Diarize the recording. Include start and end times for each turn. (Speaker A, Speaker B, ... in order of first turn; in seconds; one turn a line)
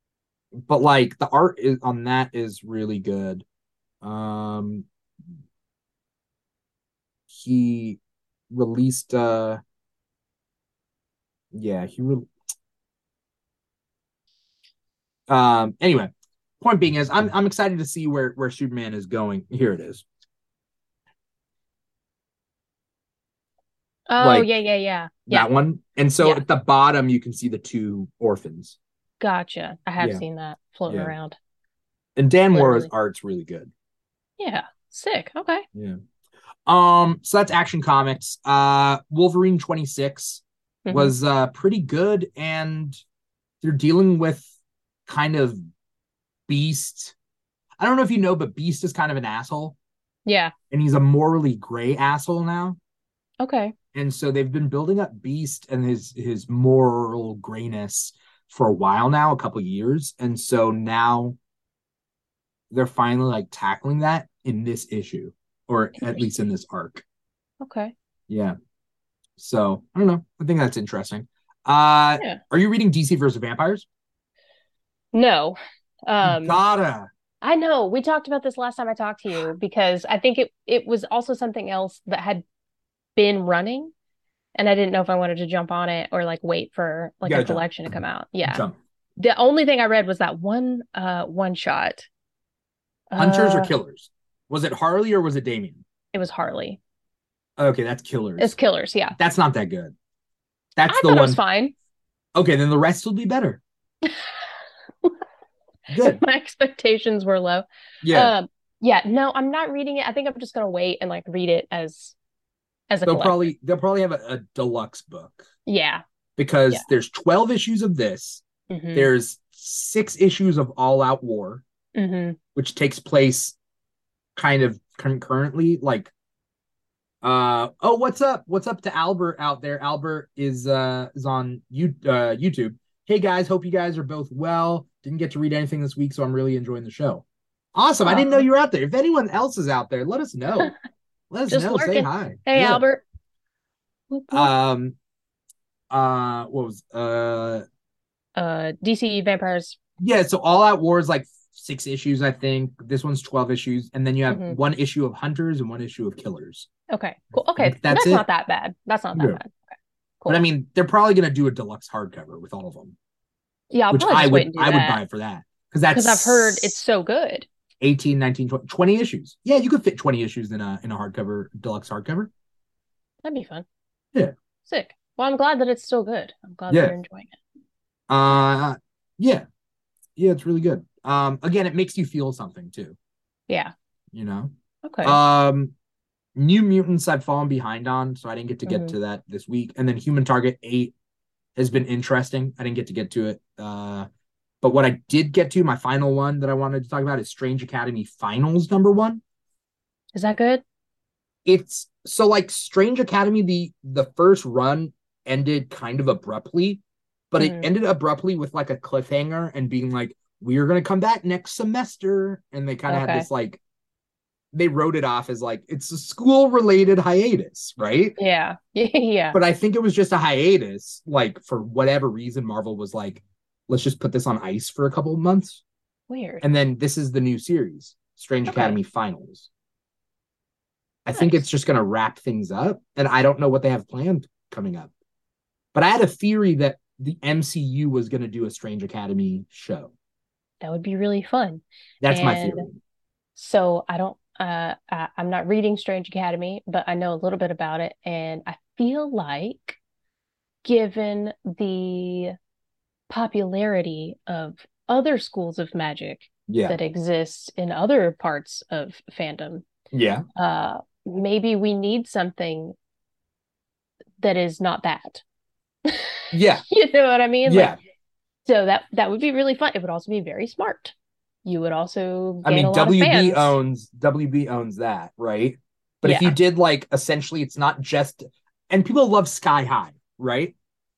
Speaker A: 0.7-3.4
Speaker A: 4.0-4.9
Speaker A: 7.3-8.0
Speaker A: 8.5-9.6
Speaker A: 11.5-12.3
Speaker A: 15.3-20.1
Speaker B: 24.1-25.5
Speaker A: 24.2-24.5
Speaker A: 25.3-28.8
Speaker B: 29.2-31.4
Speaker A: 30.9-31.1
Speaker A: 32.2-33.7
Speaker B: 32.5-32.9
Speaker B: 34.4-35.7
Speaker A: 36.7-43.0
Speaker B: 40.9-41.1
Speaker A: 43.6-44.5
Speaker A: 45.1-45.6
Speaker A: 46.5-47.1
Speaker A: 47.8-49.8
Speaker B: 50.3-50.5
Speaker A: 50.7-52.8
Speaker B: 53.4-53.8
Speaker A: 53.9-61.4
Speaker A: 62.7-67.0
Speaker B: 67.6-67.9
Speaker A: 68.3-68.5
Speaker A: 69.4-73.9
Speaker B: 75.1-76.6
Speaker A: 76.2-77.1
Speaker B: 77.4-82.4
Speaker B: 83.2-83.9
Speaker B: 84.6-88.6
Speaker A: 87.2-87.7
Speaker A: 88.5-88.8
Speaker B: 89.2-92.0
Speaker B: 93.1-93.7
Speaker A: 93.2-95.8
Speaker B: 96.1-96.8
Speaker A: 97.6-98.5
Speaker B: 98.4-99.2
Speaker A: 99.2-100.0
Speaker A: 100.8-101.4
Speaker B: 100.9-101.7
Speaker A: 102.3-103.6
Speaker A: 105.9-106.2
Speaker B: 106.0-112.2
Speaker A: 108.0-108.3
Speaker B: 112.9-113.5
Speaker A: 113.1-115.5
Speaker B: 115.7-116.0
Speaker A: 116.4-121.6
Speaker B: 118.7-119.1
Speaker B: 122.0-122.4
Speaker A: 122.5-123.6
Speaker A: 124.4-126.1
Speaker A: 127.2-137.2
Speaker A: 137.8-140.8
Speaker B: 138.1-138.4
Speaker A: 141.3-142.8
Speaker B: 141.5-143.0
Speaker B: 144.1-144.5
Speaker A: 144.3-145.0
Speaker A: 145.9-147.6
Speaker B: 148.4-149.8
Speaker A: 150.0-156.7
Speaker B: 154.3-154.6
Speaker B: 156.9-159.6
Speaker A: 157.6-158.2
Speaker A: 160.3-163.0
Speaker B: 163.7-165.0
Speaker A: 163.9-166.8
Speaker B: 165.9-167.5
Speaker A: 167.8-172.3
Speaker B: 173.2-173.7
Speaker B: 174.7-177.4
Speaker A: 176.7-176.9
Speaker A: 178.1-179.4
Speaker A: 180.2-183.0
Speaker A: 184.1-184.5
Speaker B: 184.8-185.2
Speaker A: 185.0-185.7
Speaker A: 186.4-190.9
Speaker B: 188.7-188.9
Speaker A: 191.6-194.1
Speaker A: 194.6-199.2
Speaker B: 200.2-200.6
Speaker A: 201.5-213.6
Speaker B: 207.4-207.7
Speaker B: 212.9-213.3
Speaker A: 214.5-218.2
Speaker B: 218.2-219.4
Speaker A: 219.3-225.6
Speaker B: 226.1-226.4
Speaker A: 226.4-229.5
Speaker B: 228.5-228.8
Speaker A: 231.1-234.9
Speaker B: 231.2-231.4
Speaker A: 235.7-239.9
Speaker B: 240.6-242.7
Speaker A: 242.0-242.8
Speaker B: 243.4-249.8
Speaker B: 250.6-252.4
Speaker B: 253.1-259.7
Speaker A: 256.5-256.8
Speaker A: 259.9-260.3
Speaker B: 260.4-262.8
Speaker B: 264.2-265.2
Speaker B: 265.9-267.8
Speaker A: 266.3-266.6
Speaker A: 267.5-267.8
Speaker B: 268.5-270.9
Speaker B: 271.4-273.5
Speaker A: 272.4-280.5
Speaker B: 276.0-276.3